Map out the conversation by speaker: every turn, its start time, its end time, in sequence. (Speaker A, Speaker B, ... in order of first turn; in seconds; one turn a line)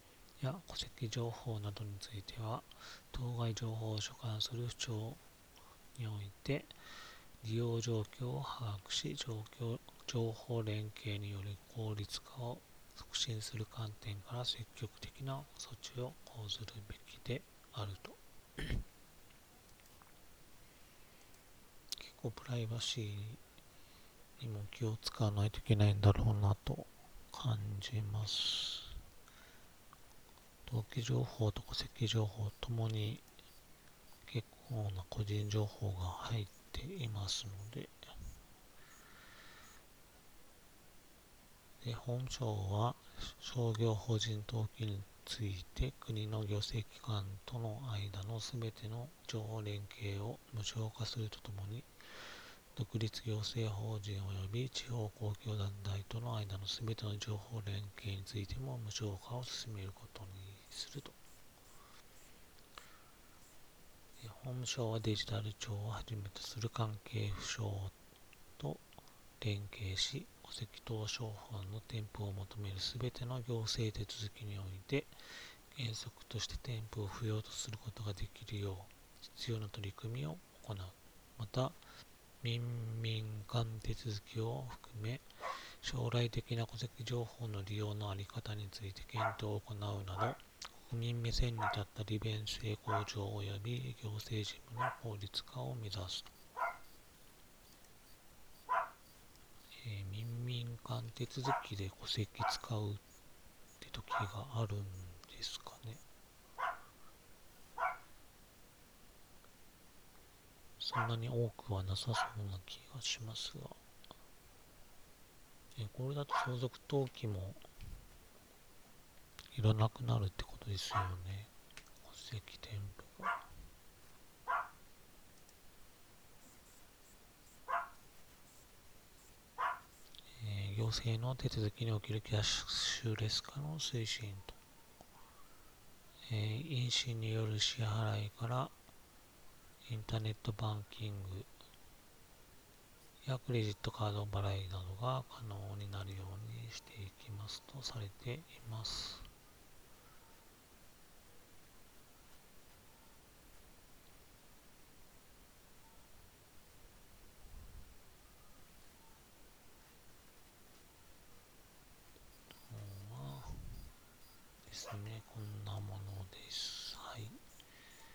Speaker A: 0.4-5.2
Speaker A: 6.0-6.7
Speaker A: 7.4-18.8
Speaker A: 22.0-23.4
Speaker A: 24.4-29.0
Speaker A: 30.6-33.2
Speaker A: 34.2-37.9
Speaker A: 41.8-51.9
Speaker A: 52.7-61.2
Speaker A: 64.2-68.0
Speaker A: 68.6-68.8
Speaker A: 69.4-75.1
Speaker A: 75.7-81.8
Speaker A: 82.4-85.2
Speaker A: 85.8-96.3
Speaker A: 99.8-103.0
Speaker A: 103.8-106.0
Speaker A: 110.8-113.8
Speaker A: 115.8-117.6
Speaker A: 119.5-121.5
Speaker A: 122.0-123.3
Speaker A: 130.4-134.6
Speaker A: 136.3-138.7
Speaker A: 139.8-141.5
Speaker A: 143.2-149.3
Speaker A: 162.7-163.7
Speaker A: 164.7-167.4